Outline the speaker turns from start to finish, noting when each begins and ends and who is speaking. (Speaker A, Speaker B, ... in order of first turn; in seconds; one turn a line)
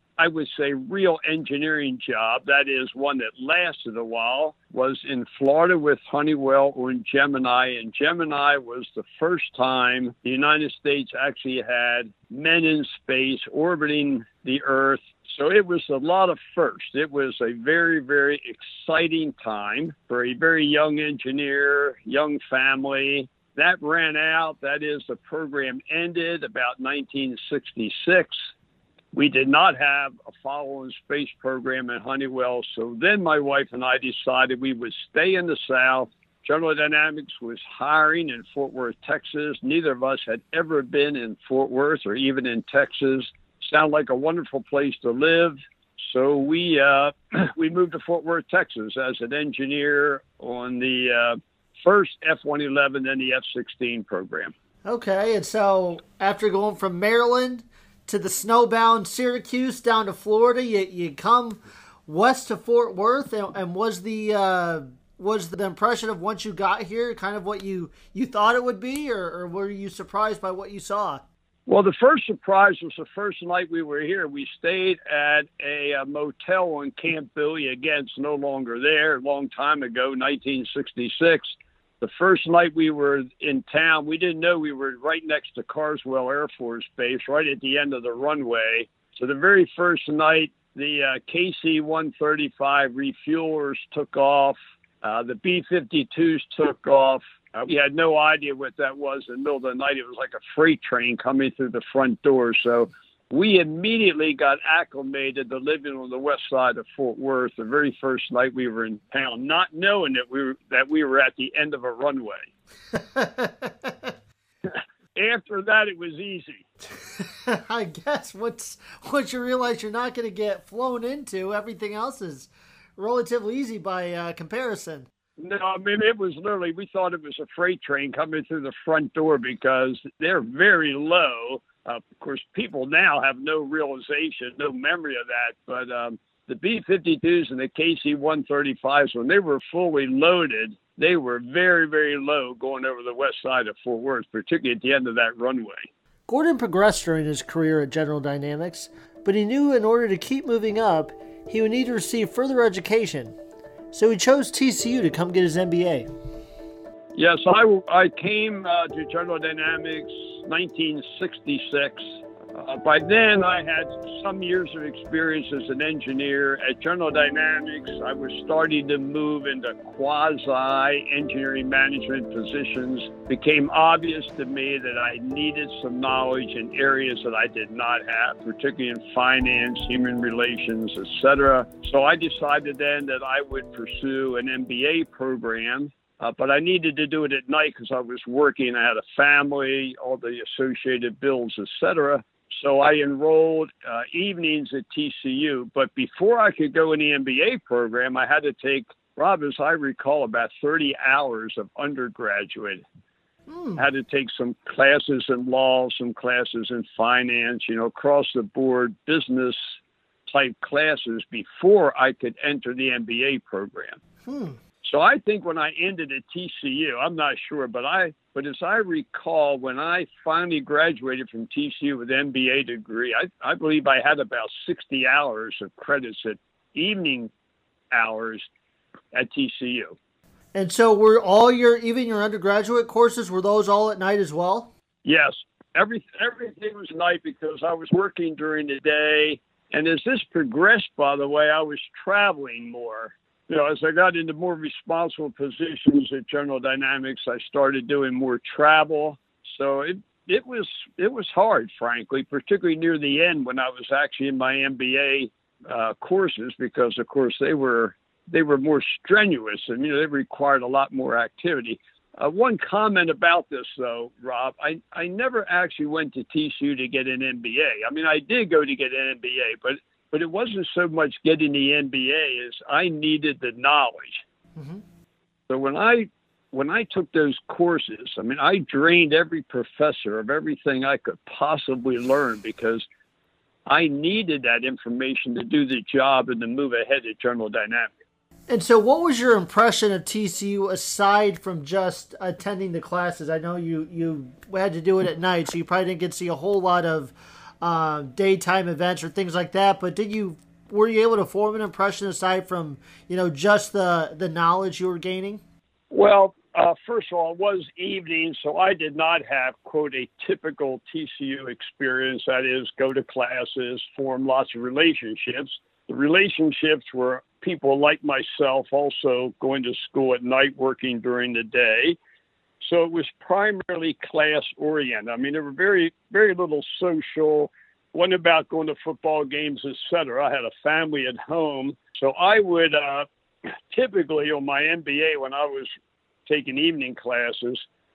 Speaker A: 0.2-28.4
Speaker A: 29.1-54.5
Speaker B: 54.9-71.2
Speaker A: 71.7-112.5
Speaker B: 112.9-114.1
Speaker A: 115.1-116.7
Speaker B: 117.0-125.1
Speaker A: 125.4-145.9
Speaker B: 146.3-153.3
Speaker B: 153.9-156.1
Speaker A: 157.1-162.0
Speaker A: 162.5-202.8
Speaker B: 203.5-203.8
Speaker A: 203.7-209.6
Speaker A: 210.3-214.0
Speaker B: 214.2-214.6
Speaker A: 214.8-227.3
Speaker A: 227.9-228.4
Speaker A: 229.1-230.0
Speaker B: 230.5-234.7
Speaker A: 235.0-274.2
Speaker A: 275.5-282.9
Speaker A: 283.7-287.9
Speaker B: 288.5-305.4
Speaker A: 305.9-322.0
Speaker A: 322.6-333.1
Speaker A: 333.7-335.7
Speaker A: 336.2-337.6